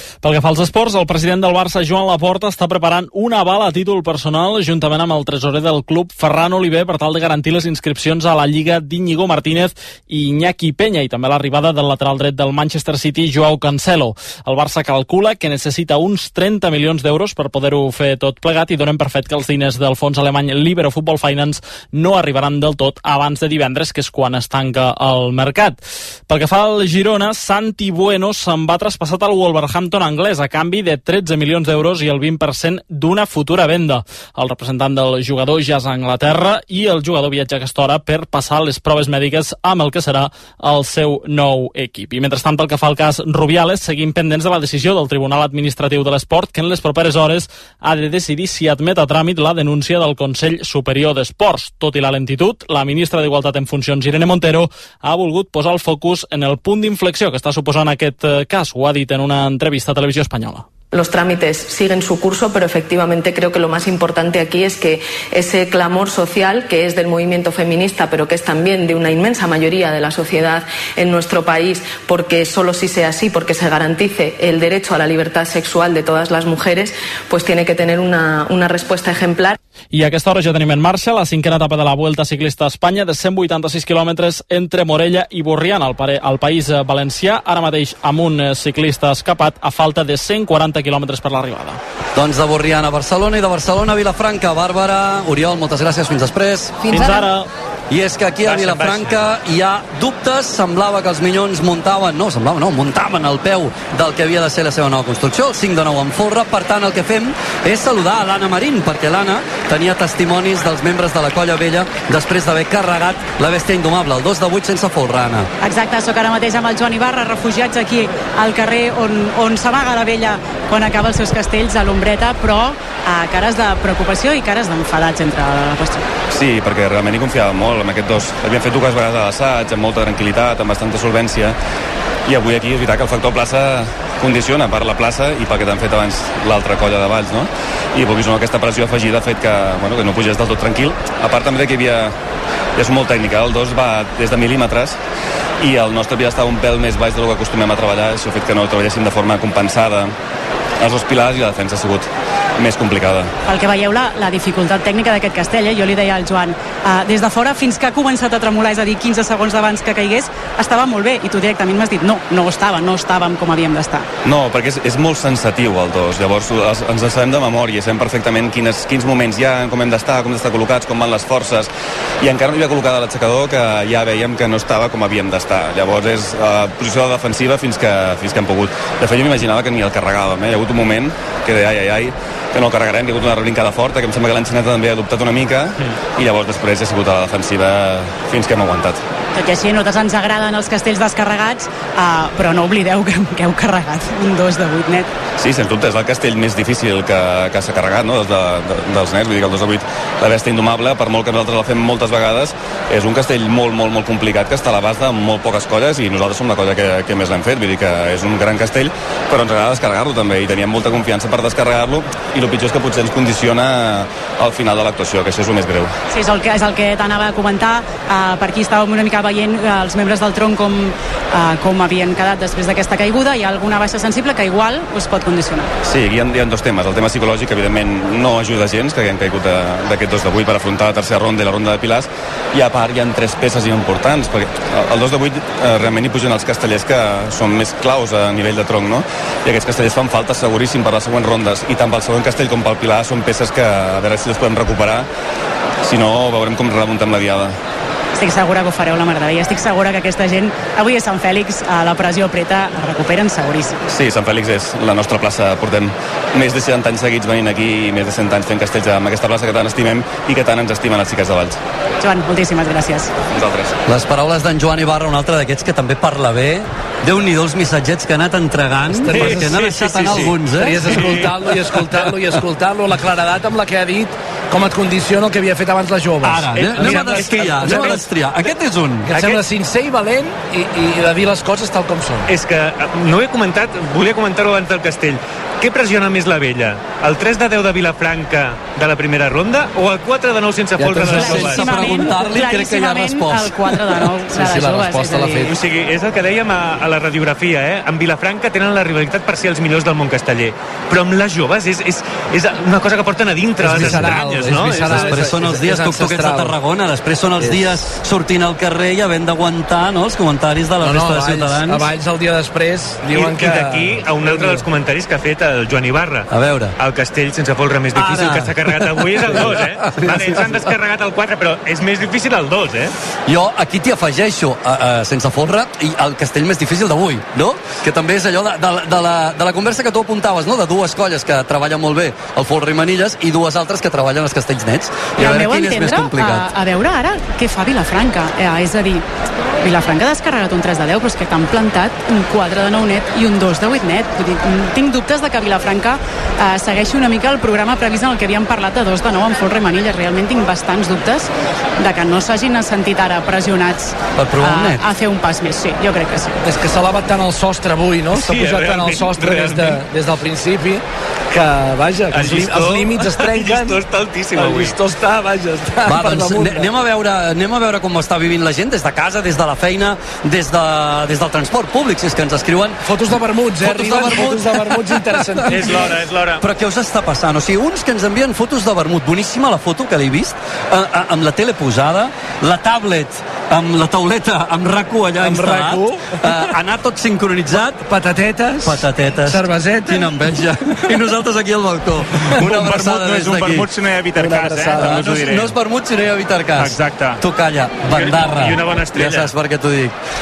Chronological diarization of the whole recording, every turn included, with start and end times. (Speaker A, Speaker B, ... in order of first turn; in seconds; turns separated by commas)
Speaker A: 0.2-60.7, Speaker B: 60.9-79.6, Speaker A: 79.9-91.8, Speaker C: 92.2-96.9, Speaker A: 96.9-97.5, Speaker C: 97.9-115.5, Speaker D: 98.5-99.3, Speaker E: 115.6-126.1, Speaker F: 126.3-131.6, Speaker F: 132.3-142.1, Speaker F: 142.8-145.0, Speaker F: 145.6-150.1, Speaker F: 150.8-152.1, Speaker F: 152.6-153.3, Speaker E: 153.5-164.1, Speaker F: 164.2-189.0, Speaker E: 189.3-195.1, Speaker F: 195.4-215.9, Speaker E: 216.1-225.7, Speaker F: 225.8-245.1, Speaker F: 245.8-247.5, Speaker E: 248.2-253.8, Speaker F: 253.9-261.6, Speaker E: 262.0-263.1, Speaker F: 263.3-263.8, Speaker C: 263.9-271.2, Speaker G: 268.9-278.1, Speaker D: 269.1-271.8, Speaker C: 276.2-279.1, Speaker D: 276.6-278.0, Speaker G: 279.1-282.3, Speaker D: 279.1-279.4, Speaker D: 282.3-291.9, Speaker G: 290.8-291.6, Speaker C: 291.0-293.6, Speaker E: 291.3-295.5, Speaker G: 294.3-295.5, Speaker D: 295.4-305.3, Speaker G: 303.6-306.5, Speaker C: 303.8-304.1, Speaker C: 304.8-311.9, Speaker G: 307.4-307.7, Speaker G: 310.8-314.6, Speaker D: 313.1-322.9, Speaker C: 316.3-316.7, Speaker C: 317.9-320.6, Speaker C: 323.3-336.5, Speaker E: 335.2-339.1, Speaker E: 339.6-356.4, Speaker C: 354.1-354.8, Speaker G: 356.4-363.8, Speaker D: 358.1-359.8, Speaker D: 362.1-364.8, Speaker G: 364.4-366.7, Speaker C: 365.9-372.8, Speaker G: 372.9-375.9, Speaker C: 373.6-387.9, Speaker D: 375.5-376.4, Speaker G: 385.2-386.4, Speaker G: 387.8-390.1, Speaker C: 388.6-393.7, Speaker H: 392.4-395.6, Speaker G: 394.2-395.0, Speaker C: 394.8-399.9, Speaker H: 396.6-397.2, Speaker D: 397.9-399.3